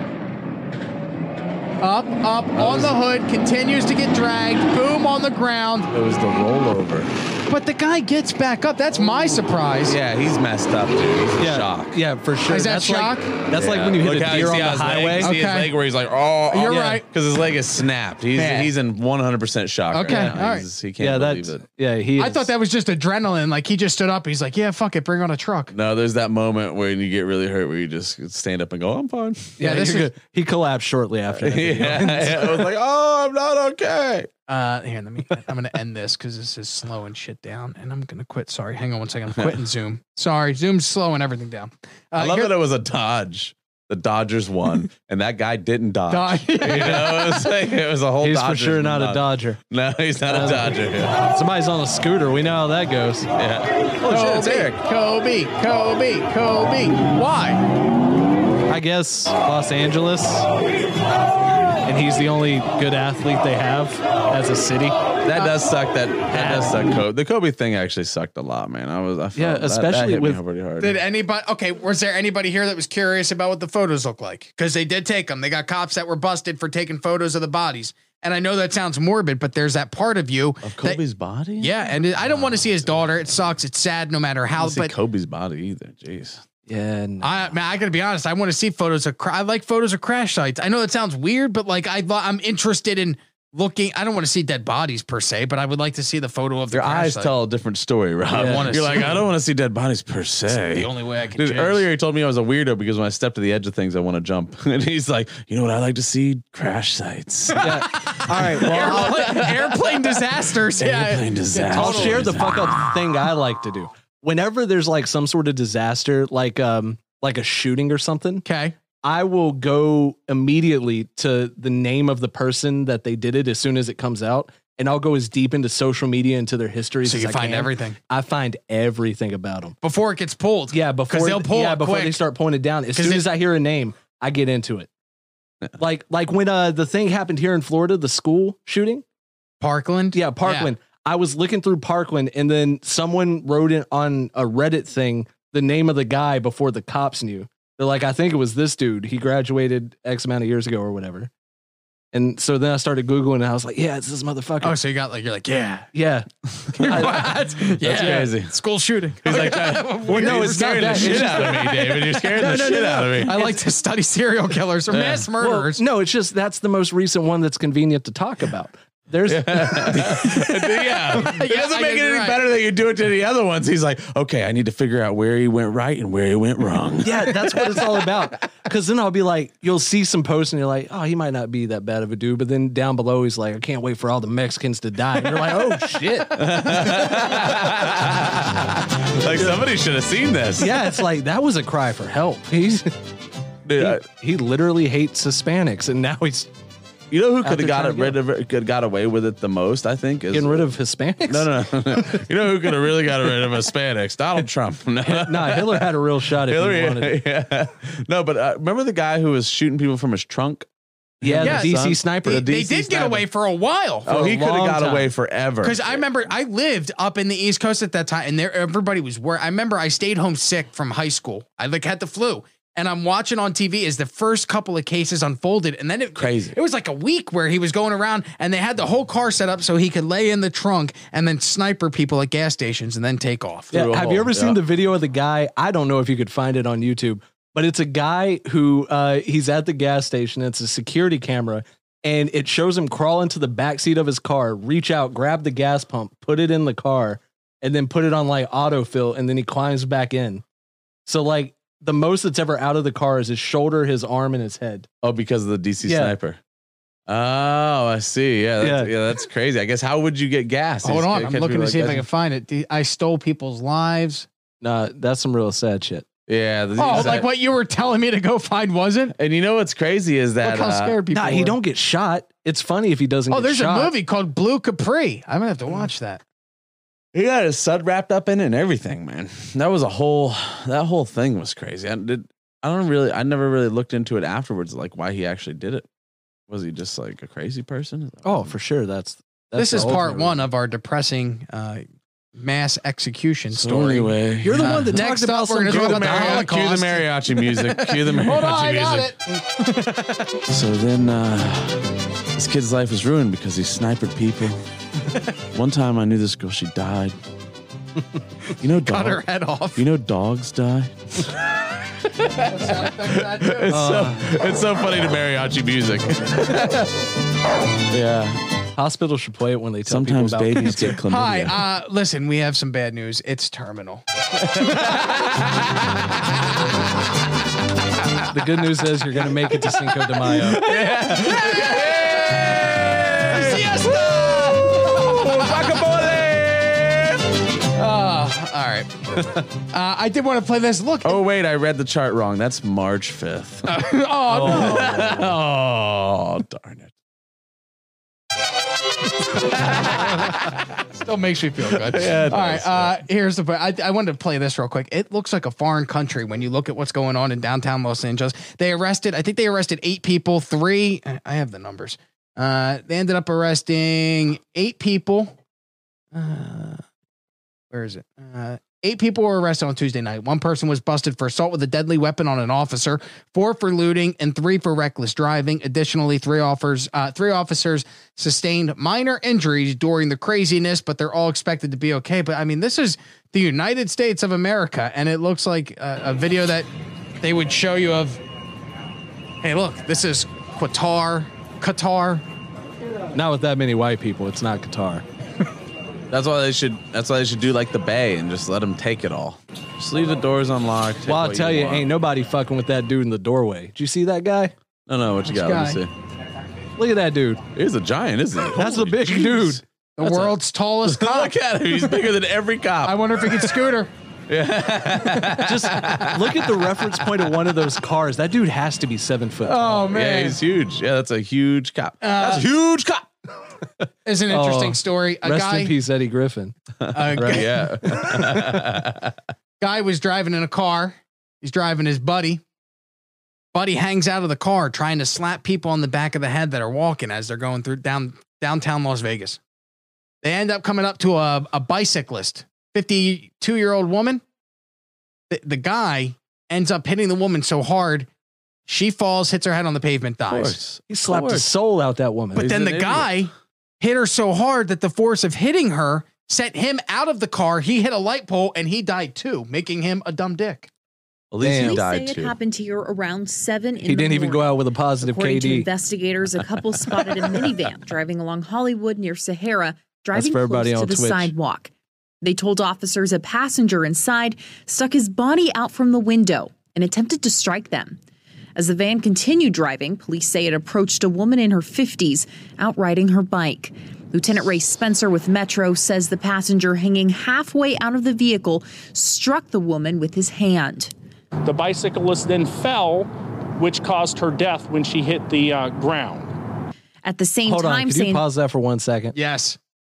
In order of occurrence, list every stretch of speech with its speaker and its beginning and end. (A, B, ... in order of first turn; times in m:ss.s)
0:01.8-0:05.9 A
0:02.5-0:02.9 B
0:05.9-0:07.1 B
0:07.5-0:10.0 A
0:09.8-0:11.9 B
0:11.4-0:15.3 C
0:12.5-0:13.3 A
0:13.5-0:21.6 B
0:15.2-0:15.7 A
0:16.5-0:17.0 A
0:16.7-0:17.0 C
0:18.3-0:18.7 A
0:19.9-0:20.6 A
0:20.0-0:20.3 C
0:21.0-0:22.5 C
0:22.2-0:25.7 A
0:25.7-0:29.6 B
0:29.6-0:32.7 C
0:29.6-0:30.1 A
0:31.3-0:34.3 B
0:34.5-0:42.5 A
0:42.1-0:51.2 B
0:46.1-0:47.4 A
0:48.2-0:49.6 C
0:50.3-0:53.3 C
0:53.4-0:54.8 B
0:54.0-0:57.6 A
0:58.7-1:00.5 C
1:01.8-1:05.0 C
1:05.2-1:11.0 B
1:06.3-1:06.7 C
1:09.3-1:10.4 C
1:10.8-1:21.0 A
1:20.6-1:23.3 B
1:21.6-1:24.9 A
1:24.6-1:26.4 B
1:26.7-1:27.5 C
1:27.2-1:37.3 A
1:36.7-1:53.0 B
1:38.3-1:38.8 C
1:38.3-1:39.2 A
1:40.5-1:41.8 A
1:47.5-1:52.5 A
1:47.6-1:49.4 C
1:51.7-1:58.4 C
1:58.4-1:58.8 A
1:59.0-2:09.8 C
2:07.0-2:08.0 A
2:09.8-2:12.2 A
2:10.7-2:14.9 C
2:12.9-2:13.3 A
2:15.8-2:19.0 C
2:19.6-2:20.7 A
2:20.1-2:31.3 C
2:32.1-2:34.8 C
2:34.6-2:35.9 A
2:35.9-2:37.3 C
2:36.7-2:45.8 A
2:36.8-2:37.2 B
2:37.8-2:38.5 B
2:39.2-2:43.5 B
2:40.1-2:43.5 C
2:44.9-2:45.3 B
2:45.4-2:50.3 C
2:49.3-2:58.3 B
2:51.1-2:52.4 A
2:57.0-3:07.5 C
3:06.3-3:10.9 B
3:09.3-3:09.6 C
3:10.6-3:12.9 C
3:13.6-3:14.0 B
3:13.8-3:16.5 C
3:17.1-3:20.7 B
3:17.4-3:18.2 C
3:20.3-3:22.2 C
3:21.2-3:30.7 B
3:25.0-3:27.2 C
3:31.2-3:32.4 C
3:31.2-3:33.3 B
3:31.4-3:34.4 A
3:34.0-3:36.0 B
3:34.1-3:35.1 C
3:35.6-3:53.8 A
3:46.2-3:46.6 B
3:53.7-3:54.6 B
3:53.7-4:10.4 C
4:11.1-4:14.9 C
4:15.0-4:16.4 B
4:15.8-4:16.2 C
4:17.1-4:22.0 B
4:18.6-4:18.9 C
4:20.8-4:24.3 A
4:24.6-4:26.1 C
4:26.3-4:27.3 B
4:26.8-4:29.1 A
4:29.2-4:31.0 B
4:30.4-4:31.6 A
4:31.1-4:33.9 C
4:33.3-4:36.2 A
4:37.1-4:45.8 B
4:46.5-4:48.5 B
4:48.2-4:50.4 C
4:49.5-4:51.8 A
4:52.4-5:00.3 A
4:53.5-4:55.0 B
4:54.4-4:56.6 C
4:55.6-4:59.1 B
5:00.5-5:01.8 B
5:02.3-5:04.6 B
5:05.5-5:07.2 B
5:08.6-5:09.2 B
5:08.8-5:09.8 A
5:09.8-5:11.4 B
5:12.0-5:16.8 B
5:12.4-5:13.8 A
5:13.7-5:14.3 C
5:17.9-5:18.4 B
5:18.8-5:21.0 C
5:19.8-5:21.6 B
5:21.0-5:25.4 A
5:24.6-5:25.9 B
5:28.3-5:30.6 C
5:30.3-5:37.4 B
5:30.5-5:32.7 A
5:33.2-5:35.8 A
5:37.7-5:39.0 A
5:39.7-5:41.2 A
5:41.0-5:43.7 B
5:43.7-5:45.2 A
5:44.3-5:46.9 B
5:44.5-5:45.1 C
5:49.6-5:50.2 B
5:50.9-6:05.4 A
5:51.7-5:53.0 B
6:06.1-6:06.8 A
6:07.7-6:26.7 A
6:27.2-6:28.2 A
6:29.4-6:32.2 A
6:33.1-6:35.0 C
6:36.1-6:41.9 B
6:41.0-6:44.5 C
6:44.9-6:45.9 B
6:45.2-6:45.8 A
6:46.8-6:47.4 C
6:47.5-6:49.6 B
6:48.6-6:50.3 C
6:50.0-6:52.0 A
6:50.8-6:53.6 B
6:52.8-6:53.9 A
6:54.3-6:57.4 B
6:55.4-6:59.8 C
6:59.4-7:00.4 A
6:59.8-7:03.1 B
7:02.0-7:02.5 A
7:04.0-7:05.7 A
7:04.3-7:06.5 C
7:06.8-7:09.1 B
7:06.9-7:07.5 A
7:07.2-7:08.4 C
7:09.6-7:12.4 A
7:13.5-7:19.4 A
7:20.2-7:24.2 A
7:25.3-7:28.1 A
7:28.7-7:30.6 A
7:30.3-7:31.5 B
7:30.9-7:32.5 C
7:32.3-7:33.2 B
7:32.3-7:40.7 A
7:41.3-7:42.3 B
7:41.4-7:41.8 C
7:41.4-7:51.7 D
7:43.8-7:45.7 C
7:50.1-7:51.3 C
7:52.2-7:58.0 D
7:58.6-8:10.9 D
8:11.4-8:16.3 E
8:17.0-8:18.2 D
8:17.4-8:19.2 C
8:19.1-8:19.6 A